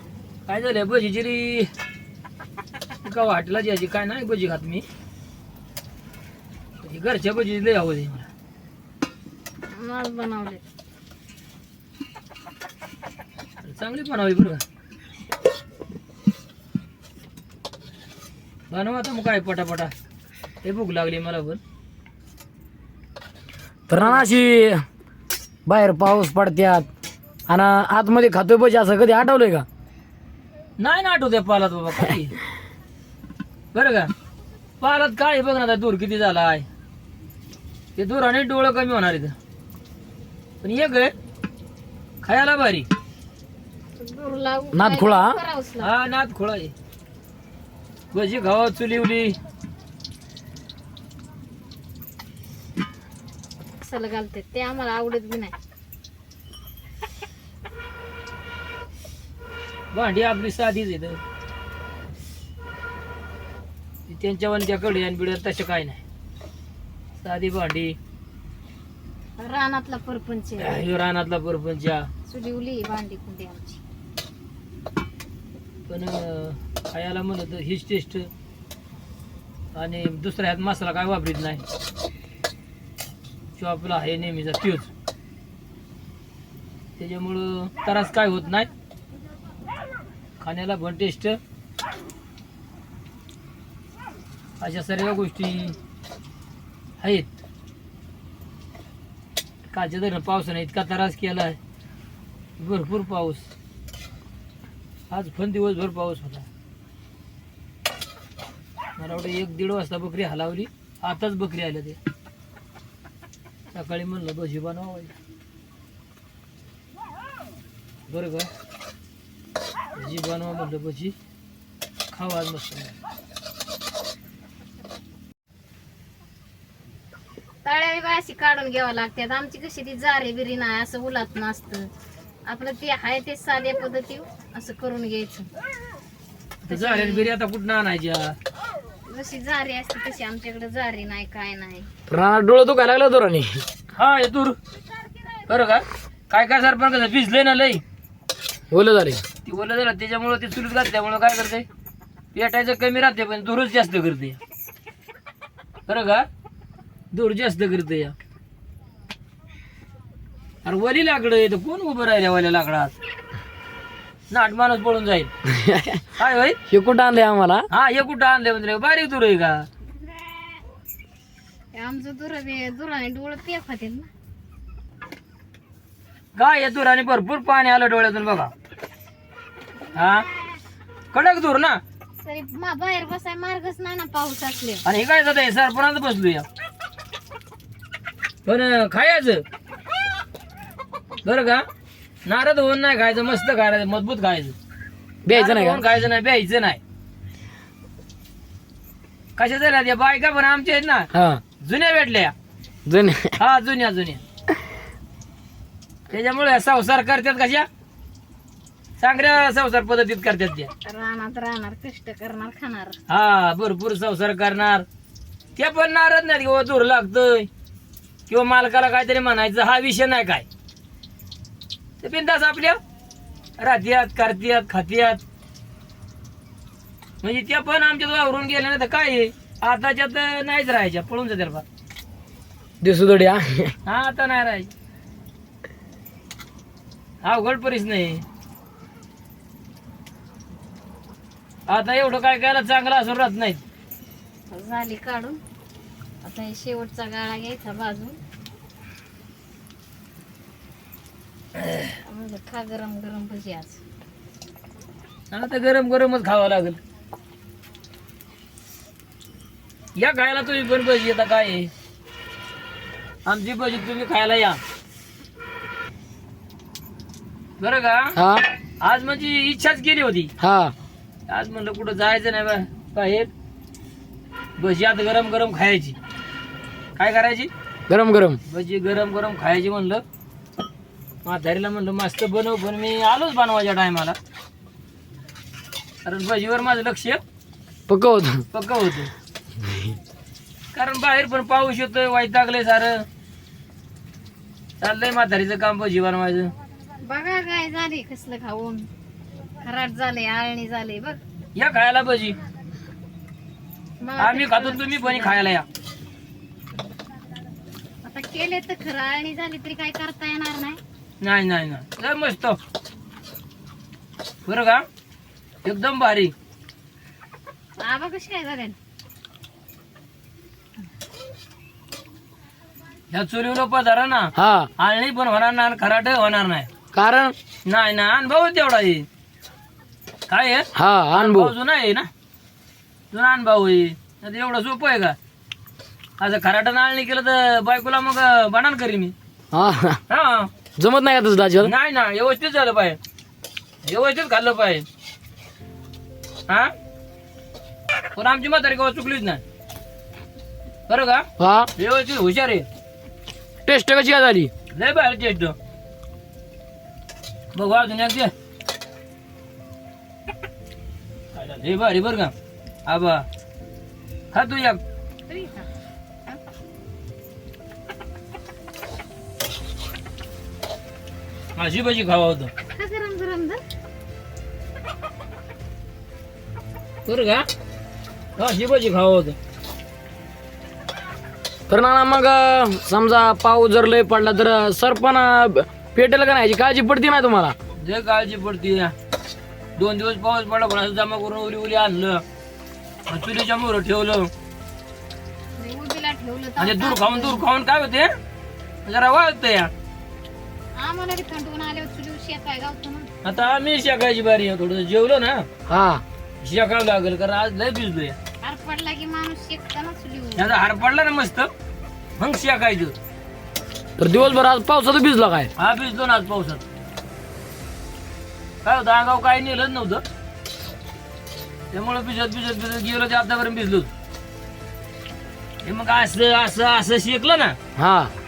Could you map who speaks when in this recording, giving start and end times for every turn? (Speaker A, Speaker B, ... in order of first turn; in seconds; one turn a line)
Speaker A: 0.5-1.7
Speaker A: 3.0-4.8
Speaker A: 6.8-8.3
Speaker B: 9.7-10.6
Speaker A: 13.6-14.6
Speaker A: 18.7-19.9
Speaker A: 20.6-21.6
Speaker C: 23.9-24.8
Speaker A: 23.9-24.2
Speaker C: 25.6-26.9
Speaker C: 27.5-29.6
Speaker A: 30.8-32.4
Speaker A: 33.7-34.1
Speaker A: 34.8-36.6
Speaker A: 38.0-39.4
Speaker A: 40.6-41.1
Speaker A: 42.2-42.9
Speaker B: 44.0-45.9
Speaker C: 44.7-45.4
Speaker A: 45.8-46.7
Speaker A: 48.1-49.4
Speaker B: 53.8-55.5
Speaker A: 59.9-61.2
Speaker A: 64.1-66.0
Speaker A: 67.2-68.0
Speaker B: 69.4-70.8
Speaker A: 70.6-72.1
Speaker B: 72.3-73.8
Speaker A: 75.9-78.3
Speaker A: 79.7-81.6
Speaker A: 83.5-84.9
Speaker A: 87.0-88.7
Speaker A: 90.4-91.4
Speaker A: 94.6-95.8
Speaker A: 97.0-97.3
Speaker A: 99.7-101.6
Speaker A: 102.6-103.5
Speaker A: 105.1-106.5
Speaker A: 109.0-112.0
Speaker A: 113.7-115.1
Speaker A: 118.1-118.5
Speaker A: 119.9-121.1
Speaker A: 122.1-122.9
Speaker B: 127.6-131.9
Speaker B: 132.5-135.5
Speaker A: 136.6-138.3
Speaker B: 136.7-137.3
Speaker B: 139.1-141.9
Speaker C: 142.1-143.6
Speaker A: 143.9-144.6
Speaker A: 145.5-147.8
Speaker C: 148.7-149.2
Speaker A: 149.4-151.7
Speaker A: 152.3-154.4
Speaker A: 155.9-156.2
Speaker A: 157.1-158.1
Speaker A: 160.6-162.9
Speaker A: 164.3-165.3
Speaker C: 165.5-166.0
Speaker A: 166.2-166.6
Speaker C: 166.7-167.6
Speaker A: 167.7-169.6
Speaker B: 171.7-174.1
Speaker A: 176.3-178.5
Speaker A: 179.9-180.2
Speaker A: 181.1-181.8
Speaker B: 182.2-184.8
Speaker A: 184.8-186.4
Speaker A: 188.4-189.4
Speaker A: 191.2-191.6
Speaker A: 192.2-194.5
Speaker C: 195.2-195.8
Speaker A: 195.3-196.8
Speaker A: 199.4-202.3
Speaker C: 201.1-201.4
Speaker C: 202.8-203.3
Speaker A: 203.4-204.2
Speaker A: 206.1-207.7
Speaker A: 209.0-210.7
Speaker B: 210.8-213.0
Speaker A: 213.1-214.8
Speaker A: 215.6-217.5
Speaker A: 218.3-220.4
Speaker A: 222.0-222.8
Speaker A: 223.6-225.2
Speaker A: 227.2-231.6
Speaker C: 232.8-233.7
Speaker A: 233.8-234.7
Speaker A: 237.2-238.2
Speaker A: 241.7-243.6
Speaker B: 244.5-245.4
Speaker B: 246.2-248.2
Speaker A: 251.6-251.9
Speaker B: 252.1-253.8
Speaker A: 255.3-256.8
Speaker A: 260.0-261.7
Speaker A: 263.2-264.6
Speaker A: 267.6-268.1
Speaker C: 268.1-268.5
Speaker A: 268.8-270.3
Speaker C: 270.4-270.7
Speaker A: 271.3-273.3
Speaker A: 274.6-275.9
Speaker A: 276.9-277.5
Speaker C: 277.9-278.4
Speaker A: 278.4-280.0
Speaker A: 281.2-284.2
Speaker A: 286.0-287.2
Speaker C: 287.9-288.4
Speaker A: 288.5-289.1
Speaker C: 289.6-289.9
Speaker A: 290.7-293.1
Speaker A: 294.8-296.5
Speaker B: 297.0-298.9
Speaker B: 299.6-301.2
Speaker A: 301.6-302.4
Speaker B: 304.0-305.5
Speaker A: 304.2-305.6
Speaker B: 308.0-310.8
Speaker A: 311.2-312.6
Speaker A: 314.4-314.8
Speaker A: 315.6-316.3
Speaker B: 317.8-318.8
Speaker A: 323.1-326.7
Speaker C: 324.4-324.7
Speaker C: 326.9-327.3
Speaker A: 327.6-329.1
Speaker A: 330.3-332.1
Speaker C: 330.7-331.5
Speaker A: 333.1-335.1
Speaker A: 336.2-339.1
Speaker C: 339.5-340.0
Speaker A: 340.1-340.5
Speaker C: 340.8-341.7
Speaker A: 341.6-343.0
Speaker A: 343.8-344.9
Speaker A: 348.1-349.4
Speaker A: 350.9-352.6
Speaker C: 351.4-351.7
Speaker C: 353.6-354.5
Speaker A: 354.7-355.5
Speaker A: 357.5-358.3
Speaker A: 361.3-362.3
Speaker A: 362.9-363.2
Speaker A: 364.3-364.8
Speaker B: 365.3-365.7
Speaker A: 371.6-372.5
Speaker B: 372.7-373.6
Speaker A: 377.1-377.4
Speaker A: 378.4-379.4
Speaker C: 381.7-387.5
Speaker A: 387.8-388.9
Speaker A: 389.8-392.2
Speaker A: 393.1-394.3
Speaker B: 395.6-397.4
Speaker A: 396.6-398.1
Speaker A: 398.8-399.7
Speaker B: 400.8-403.1
Speaker A: 403.2-405.5
Speaker C: 405.7-406.0
Speaker A: 406.4-408.2
Speaker B: 408.4-410.6
Speaker A: 410.4-411.5
Speaker A: 412.2-412.9
Speaker C: 414.0-415.5
Speaker A: 415.6-416.6
Speaker A: 418.6-420.0
Speaker A: 421.7-423.9
Speaker A: 425.6-427.6
Speaker C: 427.8-428.1